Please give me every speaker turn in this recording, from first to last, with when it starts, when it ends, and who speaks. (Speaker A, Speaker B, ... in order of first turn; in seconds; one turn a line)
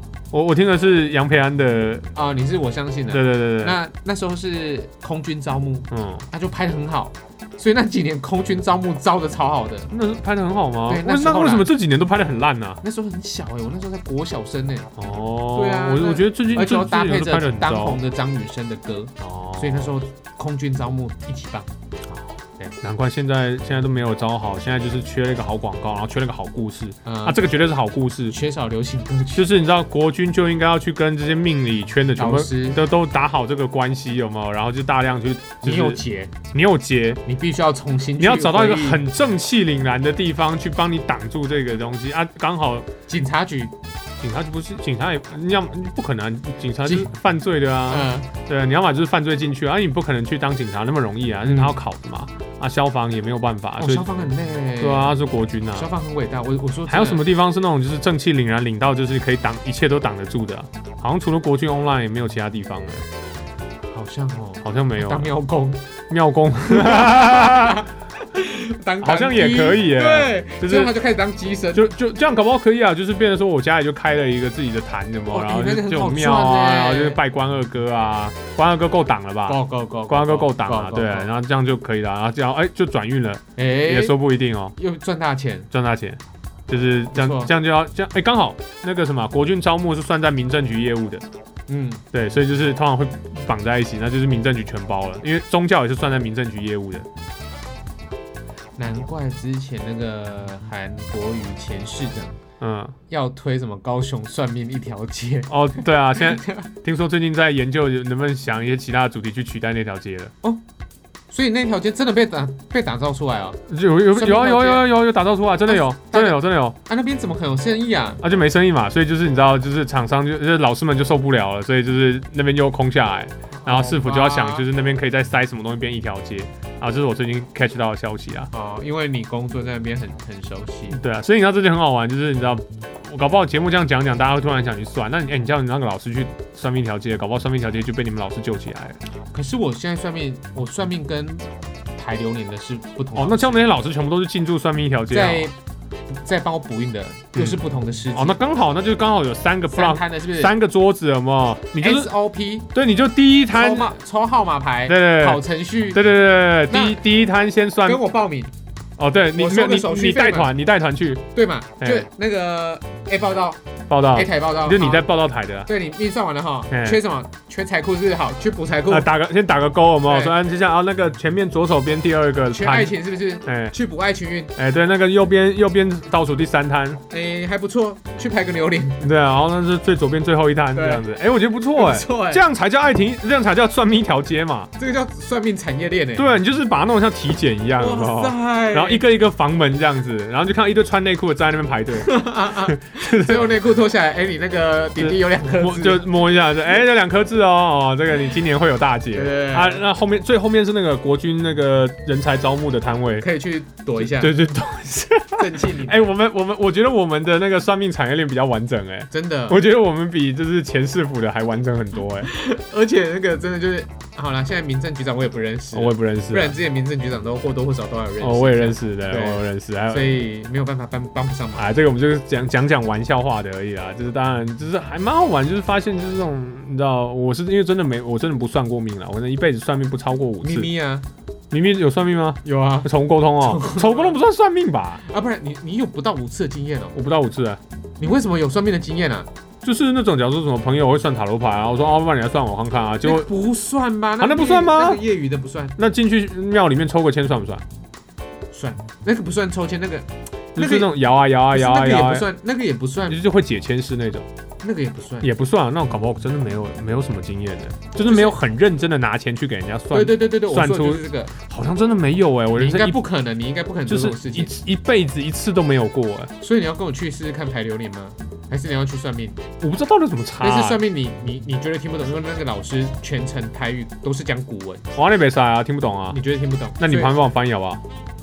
Speaker A: 0.3-2.1
Speaker B: 2.1-9.9
Speaker A: 3.1-3.8
Speaker A: 5.9-6.2
Speaker A: 9.9-12.8
Speaker B: 10.9-11.7
Speaker B: 12.8-14.9
Speaker A: 15.0-18.0
Speaker B: 15.5-21.7
Speaker A: 19.2-19.9
Speaker A: 22.8-28.4
Speaker B: 27.0-27.4
Speaker B: 28.3-29.5
Speaker A: 29.3-36.0
Speaker B: 32.2-32.8
Speaker B: 35.6-36.4
Speaker A: 36.5-37.2
Speaker B: 37.2-39.0
Speaker A: 38.2-42.9
Speaker B: 43.1-43.7
Speaker A: 44.2-54.1
Speaker B: 46.8-47.1
Speaker B: 47.9-48.3
Speaker B: 51.4-51.8
Speaker B: 53.8-55.2
Speaker A: 54.8-55.9
Speaker B: 55.7-57.2
Speaker A: 56.9-63.0
Speaker B: 63.9-65.8
Speaker A: 64.6-65.3
Speaker A: 66.1-67.8
Speaker B: 66.6-71.9
Speaker A: 69.0-70.9
Speaker A: 71.7-84.7
Speaker B: 75.3-77.2
Speaker B: 79.5-81.3
Speaker B: 83.6-84.2
Speaker B: 84.7-85.7
Speaker A: 85.7-91.2
Speaker B: 87.1-87.5
Speaker B: 91.7-92.0
Speaker A: 92.1-97.1
Speaker B: 98.8-102.4
Speaker A: 102.6-103.0
Speaker B: 103.1-106.7
Speaker A: 105.5-110.3
Speaker B: 111.3-113.6
Speaker A: 113.7-116.8
Speaker B: 114.1-114.9
Speaker B: 115.6-118.3
Speaker A: 118.2-128.5
Speaker B: 123.5-124.7
Speaker B: 128.5-131.0
Speaker A: 130.9-139.0
Speaker B: 139.3-143.7
Speaker A: 143.1-145.5
Speaker B: 145.1-145.5
Speaker B: 146.1-148.4
Speaker A: 147.3-147.6
Speaker A: 148.1-152.1
Speaker B: 149.7-150.5
Speaker B: 151.8-152.7
Speaker A: 152.7-153.9
Speaker B: 153.5-156.0
Speaker A: 154.8-158.0
Speaker B: 156.7-157.0
Speaker B: 157.8-158.5
Speaker A: 159.0-161.2
Speaker B: 159.3-160.5
Speaker B: 161.3-165.1
Speaker A: 161.8-162.1
Speaker A: 163.9-165.7
Speaker B: 165.6-169.1
Speaker A: 166.7-167.0
Speaker A: 168.9-173.7
Speaker B: 170.1-170.3
Speaker B: 172.5-174.5
Speaker A: 174.6-177.0
Speaker B: 177.1-179.0
Speaker A: 179.0-184.7
Speaker B: 180.7-181.0
Speaker B: 181.7-182.4
Speaker B: 184.8-186.3
Speaker A: 186.2-193.5
Speaker B: 187.8-189.1
Speaker B: 192.0-196.0
Speaker A: 195.0-203.3
Speaker B: 199.1-199.8
Speaker B: 203.2-204.3
Speaker A: 204.0-212.3
Speaker B: 205.4-206.1
Speaker B: 209.1-209.6
Speaker B: 212.2-221.7
Speaker A: 215.7-216.6
Speaker A: 218.2-220.2
Speaker A: 221.5-230.7
Speaker B: 230.4-231.1
Speaker A: 231.5-235.0
Speaker B: 232.4-234.2
Speaker B: 235.1-237.0
Speaker A: 236.9-237.6
Speaker B: 238.0-239.3
Speaker A: 239.6-243.3
Speaker B: 243.0-245.8
Speaker A: 244.2-245.0
Speaker A: 245.8-247.6
Speaker B: 248.5-250.9
Speaker A: 250.5-252.3
Speaker B: 251.5-253.2
Speaker A: 253.1-254.2
Speaker B: 254.6-255.3
Speaker A: 255.2-263.0
Speaker B: 258.0-258.4
Speaker B: 259.9-261.4
Speaker B: 262.6-264.5
Speaker A: 263.9-266.3
Speaker B: 266.4-269.4
Speaker A: 269.6-270.8
Speaker B: 270.4-274.9
Speaker A: 274.9-276.2
Speaker B: 276.1-277.2
Speaker A: 276.8-277.8